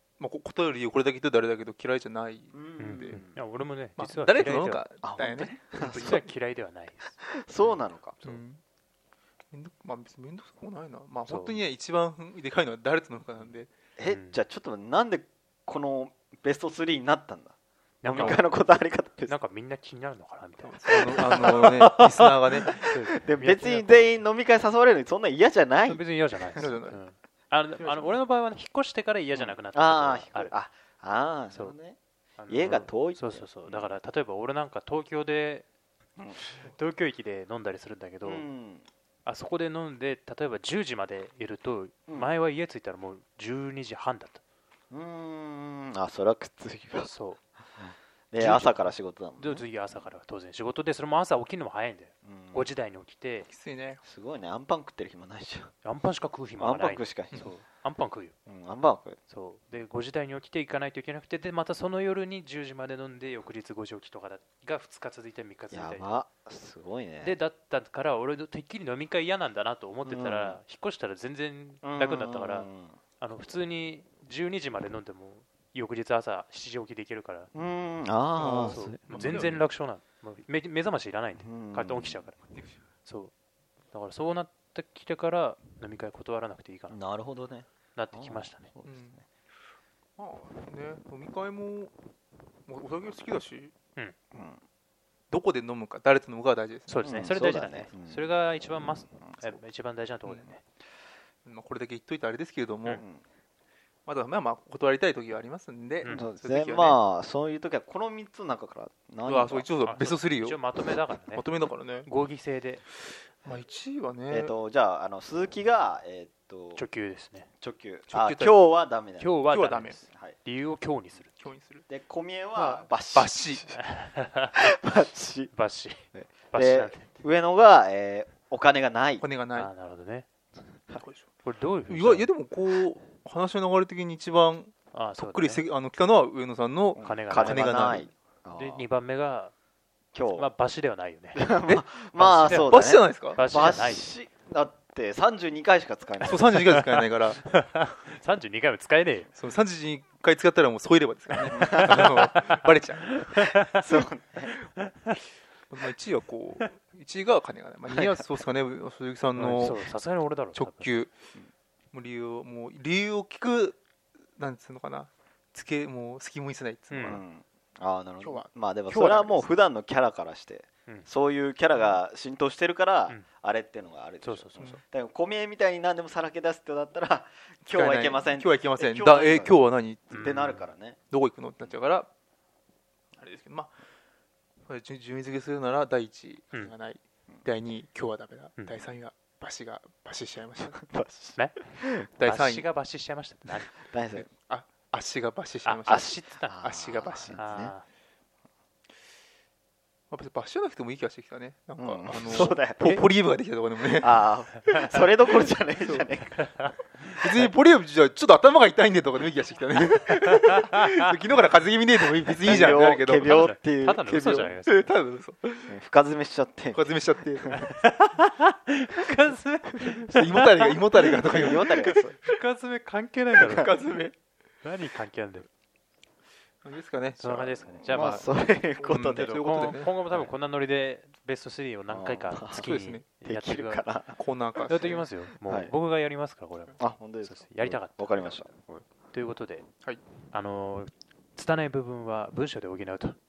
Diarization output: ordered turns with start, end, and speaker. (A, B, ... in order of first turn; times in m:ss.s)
0:00.2-0:03.2 A
0:02.5-0:03.4 B
0:02.8-0:04.8 C
0:04.0-0:06.3 A
0:05.0-0:06.2 B
0:05.8-0:07.8 C
0:07.2-0:08.4 B
0:08.2-0:08.6 A
0:09.5-0:13.7 A
0:11.3-0:11.6 C
0:14.0-0:19.3 B
0:14.0-0:14.4 C
0:18.0-0:18.5 C
0:18.2-0:18.4 A
0:19.3-0:24.1 C
0:20.6-0:22.8 A
0:21.1-0:21.9 B
0:22.7-0:26.0 B
0:25.8-0:30.5 C
0:26.6-0:27.0 A
0:29.3-0:33.9 B
0:32.4-0:35.6 C
0:36.4-0:38.4 C
0:38.2-0:38.8 B
0:39.2-0:44.4 C
0:44.9-0:47.1 B
0:47.0-0:47.4 C
0:47.8-0:49.6 B
0:48.4-0:53.5 C
0:52.2-0:52.7 B
0:53.5-0:54.0 A
0:54.0-0:55.7 B
0:55.8-0:58.3 C
0:56.6-0:57.4 B
0:58.4-0:59.2 B
0:59.3-1:06.1 C
1:05.7-1:07.4 B
1:07.2-1:12.7 C
1:10.0-1:10.6 B
1:11.8-1:13.0 B
1:13.2-1:17.5 C
1:17.5-1:19.6 B
1:18.4-1:19.6 A
1:18.6-1:22.4 C
1:21.4-1:22.2 B
1:23.0-1:23.3 C
1:23.9-1:27.0 C
1:26.9-1:29.1 B
1:27.9-1:28.7 C
1:28.8-1:29.2 A
1:30.2-1:31.9 A
1:32.7-1:33.7 A
1:34.3-1:34.6 B
1:35.3-1:37.2 A
1:36.9-1:40.6 C
1:37.0-1:38.3 B
1:39.2-1:39.6 B
1:41.4-1:43.0 A
1:44.0-1:47.0 A
1:46.0-1:46.3 C
1:46.1-1:49.7 B
1:49.2-1:50.6 A
1:49.8-1:51.4 C
1:51.3-1:52.1 A
1:52.0-1:52.8 C
1:53.4-1:54.5 A
1:54.3-1:56.8 B
1:56.8-1:57.5 C
1:57.6-1:59.3 B
1:58.1-1:58.5 A
1:59.2-2:01.3 C
1:59.5-2:00.0 A
2:01.4-2:01.9 A
2:01.9-2:03.8 B
2:02.6-2:03.6 A
2:03.7-2:04.7 C
2:04.6-2:05.5 B
2:05.5-2:07.1 C
2:06.1-2:09.2 B
2:09.2-2:09.7 A
2:09.5-2:10.3 C
2:11.0-2:11.3 A
2:11.4-2:12.3 C
2:11.9-2:18.1 A
2:14.9-2:15.6 C
2:17.0-2:18.8 B
2:17.0-2:19.5 C
2:20.1-2:20.5 B
2:20.3-2:21.5 C
2:21.3-2:26.8 B
2:22.2-2:24.1 C
2:22.4-2:23.4 A
2:26.2-2:27.4 A
2:27.4-2:29.3 C
2:29.4-2:33.2 A
2:31.4-2:34.0 C
2:31.5-2:32.2 B
2:33.6-2:34.5 B
2:34.8-2:35.2 C
2:35.7-2:39.8 A
2:39.4-2:40.9 C
2:40.5-2:41.1 A
2:41.9-2:43.8 A
2:44.4-2:47.2 A
2:46.9-2:47.2 C
2:47.0-2:59.5 B
2:48.2-2:49.4 A
2:54.2-2:54.8 C
2:57.6-3:00.4 A
3:00.1-3:00.6 C
3:00.1-3:01.0 B
3:01.1-3:02.1 A
3:03.2-3:03.7 A
3:04.7-3:10.8 A
3:10.8-3:12.1 B
3:12.2-3:12.6 A
3:12.2-3:13.7 C
3:13.7-3:14.2 B
3:14.1-3:17.4 A
3:15.6-3:16.6 C
3:15.9-3:17.7 B
3:17.3-3:17.8 C
3:20.1-3:24.1 A
3:21.8-3:22.8 B
3:22.3-3:23.0 C
3:24.0-3:26.4 B
3:24.6-3:25.0 C
3:25.8-3:26.1 A
3:26.3-3:27.5 C
3:27.2-3:33.5 A
3:30.2-3:31.1 C
3:32.4-3:34.0 B
3:33.2-3:34.9 C
3:34.0-3:35.8 A
3:35.7-3:36.8 B
3:36.7-3:37.8 A
3:37.5-3:43.7 C
3:40.0-3:41.8 A
3:41.1-3:42.2 B
3:43.4-3:44.1 A
3:44.6-3:45.5 C
3:46.6-3:48.2 A
3:47.2-3:48.2 C
3:47.8-3:49.3 B
3:48.8-3:49.9 A
3:49.1-3:53.8 C
3:51.9-3:54.2 B
3:52.6-3:53.0 A
3:54.2-3:55.0 A
3:54.7-3:59.7 C
3:55.4-3:55.7 B
3:56.8-3:58.5 B
4:00.3-4:03.2 C